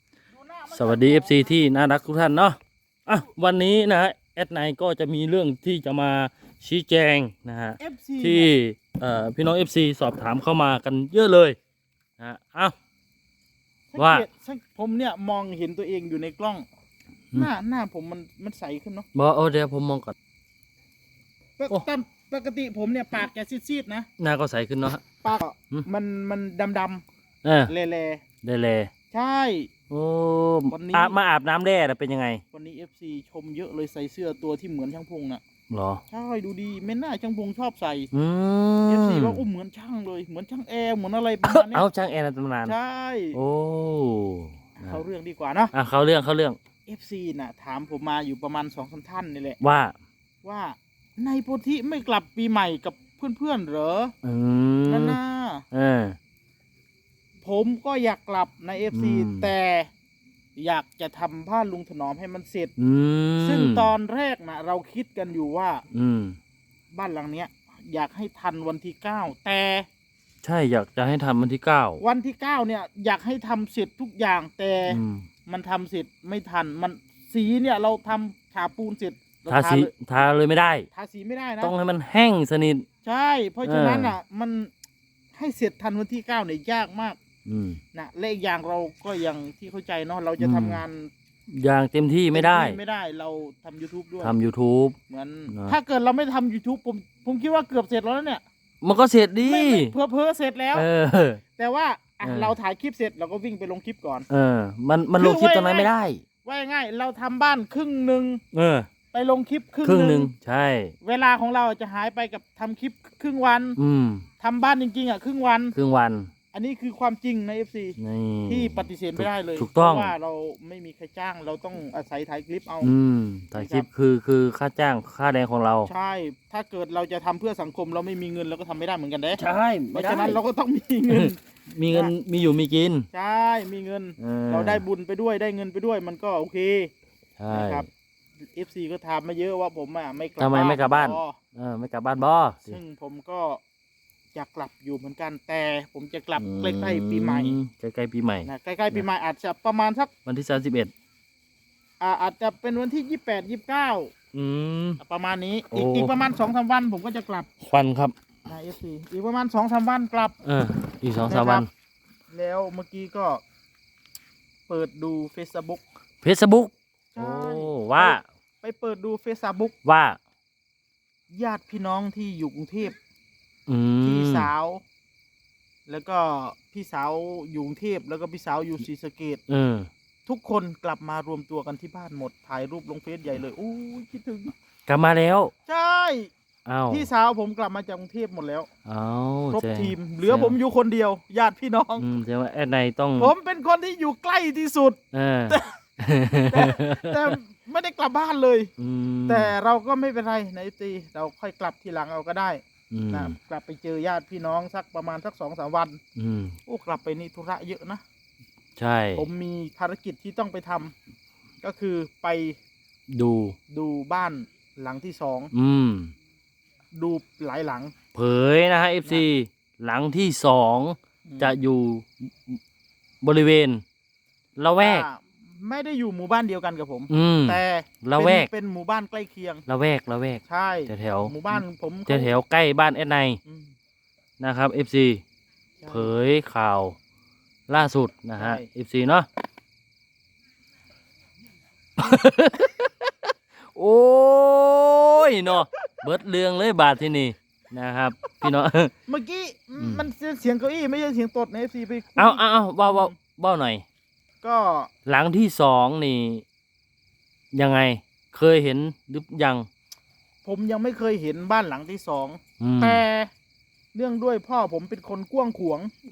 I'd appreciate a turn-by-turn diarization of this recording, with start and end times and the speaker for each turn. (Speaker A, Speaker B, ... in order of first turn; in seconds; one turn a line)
Speaker A: 0.3-1.6
Speaker B: 0.7-11.6
Speaker A: 7.8-8.5
Speaker B: 12.2-12.7
Speaker A: 13.9-16.6
Speaker B: 14.0-14.3
Speaker A: 17.3-19.1
Speaker B: 19.1-20.1
Speaker A: 21.6-24.1
Speaker B: 24.2-25.9
Speaker A: 25.2-27.0
Speaker B: 27.4-27.7
Speaker A: 27.7-28.2
Speaker B: 28.4-28.9
Speaker A: 29.1-29.7
Speaker B: 29.9-32.4
Speaker A: 30.7-31.2
Speaker A: 32.5-35.4
Speaker B: 35.7-36.0
Speaker A: 36.1-38.1
Speaker B: 38.1-39.4
Speaker A: 38.9-41.9
Speaker B: 41.4-42.8
Speaker A: 42.6-43.4
Speaker B: 43.3-45.0
Speaker A: 44.8-45.7
Speaker B: 45.7-46.6
Speaker A: 46.9-49.6
Speaker B: 49.6-50.0
Speaker A: 50.4-54.1
Speaker B: 54.2-55.2
Speaker A: 54.9-55.6
Speaker B: 55.7-56.2
Speaker A: 57.4-59.9
Speaker B: 58.9-59.5
Speaker A: 60.6-62.7
Speaker B: 62.8-63.9
Speaker A: 63.4-65.8
Speaker B: 65.9-66.4
Speaker A: 67.0-69.9
Speaker B: 70.4-72.0
Speaker A: 72.0-79.9
Speaker B: 74.9-75.3
Speaker B: 79.5-80.9
Speaker A: 80.9-81.7
Speaker B: 81.6-82.9
Speaker A: 83.0-84.7
Speaker B: 83.6-84.2
Speaker A: 85.3-87.2
Speaker B: 87.4-87.8
Speaker A: 87.9-91.1
Speaker B: 90.4-90.8
Speaker B: 91.5-92.8
Speaker A: 92.3-94.4
Speaker B: 94.2-95.0
Speaker A: 95.1-98.4
Speaker B: 95.5-95.8
Speaker B: 98.8-99.9
Speaker A: 99.4-100.9
Speaker B: 100.7-101.4
Speaker A: 101.5-104.2
Speaker B: 102.2-102.5
Speaker B: 104.3-106.2
Speaker A: 105.2-105.9
Speaker A: 106.4-108.4
Speaker B: 108.5-108.9
Speaker A: 109.1-110.3
Speaker B: 109.8-110.9
Speaker A: 111.0-113.8
Speaker B: 113.8-114.3
Speaker A: 114.4-115.8
Speaker B: 115.7-116.3
Speaker A: 116.5-122.9
Speaker B: 118.0-120.1
Speaker B: 122.8-125.9
Speaker A: 123.6-123.9
Speaker A: 125.8-129.4
Speaker B: 129.4-130.4
Speaker A: 129.9-132.1
Speaker B: 131.1-133.1
Speaker A: 133.1-136.9
Speaker B: 134.2-134.8
Speaker B: 137.4-137.9
Speaker A: 137.5-137.8
Speaker A: 138.5-141.4
Speaker B: 140.4-142.8
Speaker A: 142.7-143.6
Speaker A: 144.3-147.6
Speaker B: 146.4-149.1
Speaker A: 148.5-150.1
Speaker B: 150.2-150.9
Speaker A: 152.0-154.1
Speaker B: 154.3-155.0
Speaker A: 155.0-157.5
Speaker B: 155.7-156.1
Speaker B: 157.6-158.1
Speaker A: 158.5-160.3
Speaker B: 160.4-161.7
Speaker A: 161.2-161.7
Speaker A: 162.3-163.4
Speaker A: 164.7-165.8
Speaker B: 166.2-168.2
Speaker A: 167.2-169.7
Speaker B: 169.8-170.2
Speaker A: 171.3-173.0
Speaker B: 173.7-174.5
Speaker A: 174.0-174.8
Speaker A: 175.9-179.4
Speaker B: 179.5-179.9
Speaker A: 180.2-184.5
Speaker B: 184.9-185.5
Speaker A: 185.7-186.3
Speaker B: 186.7-187.1
Speaker A: 186.9-188.7
Speaker B: 188.8-190.6
Speaker A: 189.5-192.1
Speaker B: 192.0-193.3
Speaker A: 193.2-195.0
Speaker B: 195.1-197.3
Speaker A: 196.5-198.7
Speaker B: 198.8-199.5
Speaker A: 199.3-206.0
Speaker B: 202.9-203.4
Speaker B: 206.2-206.5
Speaker A: 206.7-208.0
Speaker B: 208.8-209.3
Speaker A: 209.2-210.9
Speaker A: 211.6-212.6
Speaker B: 213.1-213.6
Speaker A: 213.7-215.5
Speaker B: 215.5-216.1
Speaker A: 216.9-217.9
Speaker B: 218.1-222.6
Speaker A: 221.3-221.6
Speaker B: 223.2-223.8
Speaker B: 224.6-225.1
Speaker A: 224.8-229.6
Speaker B: 227.1-228.5
Speaker B: 229.7-233.4
Speaker A: 230.5-232.3
Speaker A: 233.5-233.7
Speaker B: 234.4-235.2
Speaker A: 235.8-236.2
Speaker B: 235.9-237.0
Speaker B: 237.7-239.3
Speaker A: 238.4-238.7
Speaker B: 242.0-243.1
Speaker B: 243.7-248.9
Speaker A: 249.1-253.2
Speaker B: 249.8-250.0
Speaker B: 252.1-253.8
Speaker A: 254.4-254.9
Speaker B: 255.1-256.4
Speaker B: 257.5-259.7
Speaker A: 260.4-263.3
Speaker B: 262.6-263.0
Speaker A: 263.9-265.9